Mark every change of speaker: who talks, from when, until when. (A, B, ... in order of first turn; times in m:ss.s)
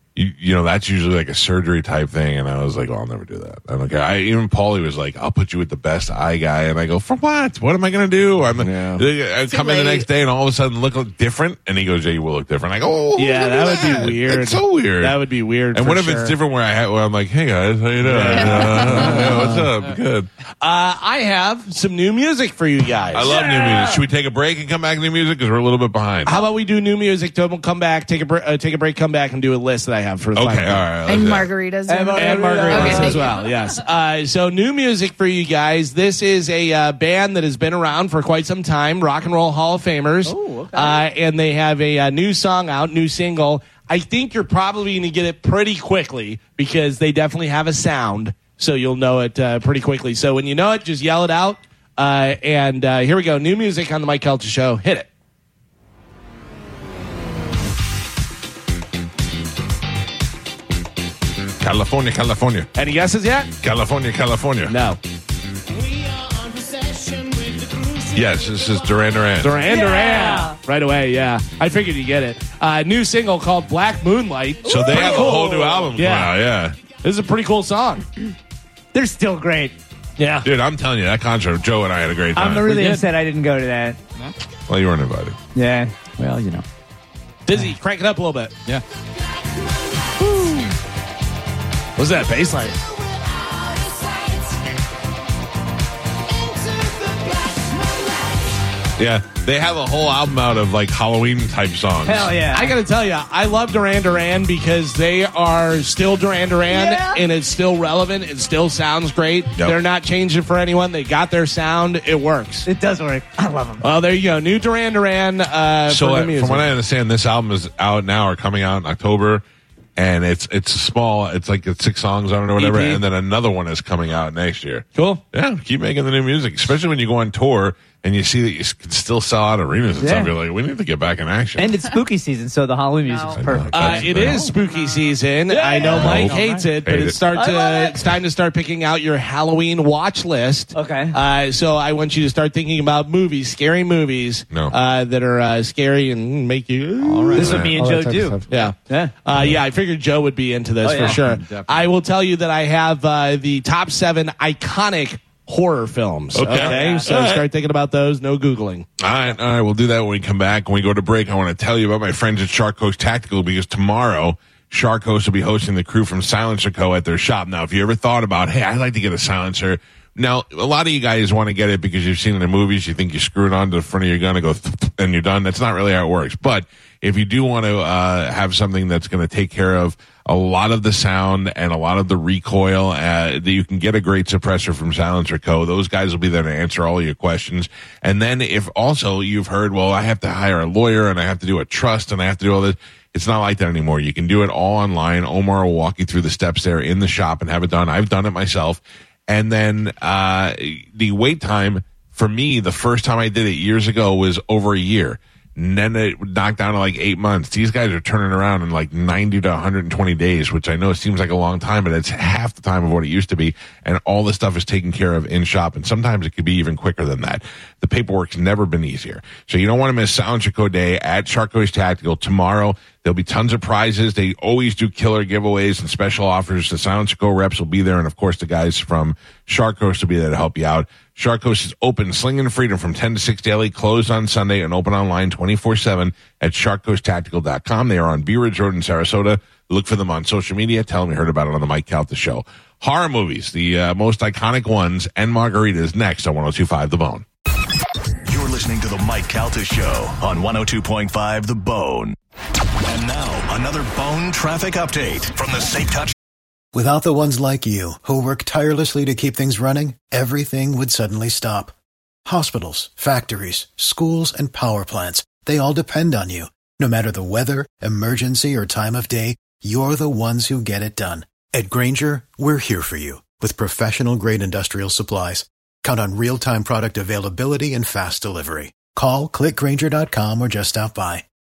0:00.2-0:15.2 A
0:08.6-0:09.0 B
0:09.4-0:10.1 C
0:13.1-0:16.4 B
0:13.5-0:14.0 C
0:15.7-0:20.3 A
0:18.0-0:19.7 B
0:18.3-0:19.2 C
0:20.6-0:23.4 B
0:23.1-0:26.4 A
0:23.3-0:24.0 D
0:26.2-0:30.8 B
0:30.3-0:31.5 A
0:31.0-0:33.4 C
0:31.9-0:33.2 D
0:32.2-0:55.1 B
0:32.7-0:33.1 A
0:40.2-0:41.0 D
1:01.6-1:02.7 A
1:02.8-1:03.5 B
1:03.6-1:04.7 A
1:04.7-1:05.0 B
1:08.1-1:09.7 A
1:09.4-1:16.4 B
1:09.7-1:10.6 D
1:14.6-1:15.8 D
1:14.6-1:16.8 A
1:17.0-1:18.0 B
1:18.9-1:19.7 D
1:20.2-1:20.5 B
1:20.4-1:22.7 A
1:22.3-1:24.0 D
1:22.6-1:23.0 E
1:24.7-1:25.4 A
1:25.5-1:26.0 D
1:26.2-1:26.6 E
1:27.5-1:28.5 B
1:32.0-1:32.8 B
1:39.0-1:42.3 A
1:42.0-1:42.7 D
1:42.5-1:52.7 B
1:46.7-1:47.2 D
1:52.6-1:53.9 D
1:53.8-1:56.7 B
1:55.9-1:59.4 A
2:00.0-2:11.7 A
2:02.6-2:03.0 D
2:04.9-2:05.2 B
2:10.0-2:10.3 D
2:11.6-2:14.5 D
2:13.0-2:13.4 C
2:13.4-2:14.5 A
2:13.7-2:38.9 B
2:14.6-2:15.1 C
2:15.5-2:16.7 D
2:15.9-2:17.2 A
2:17.3-2:18.0 D
2:20.7-2:21.2 D
2:27.0-2:28.4 E
2:27.3-2:27.7 A
2:27.3-2:29.1 D
2:30.8-2:31.2 D
2:30.9-2:31.8 E
2:36.3-2:37.4 A
2:36.6-2:37.1 D
2:39.0-4:07.2 A
4:08.2-4:12.2 F
4:12.8-4:16.1 F
4:16.7-4:21.7 G
4:22.2-4:41.2 G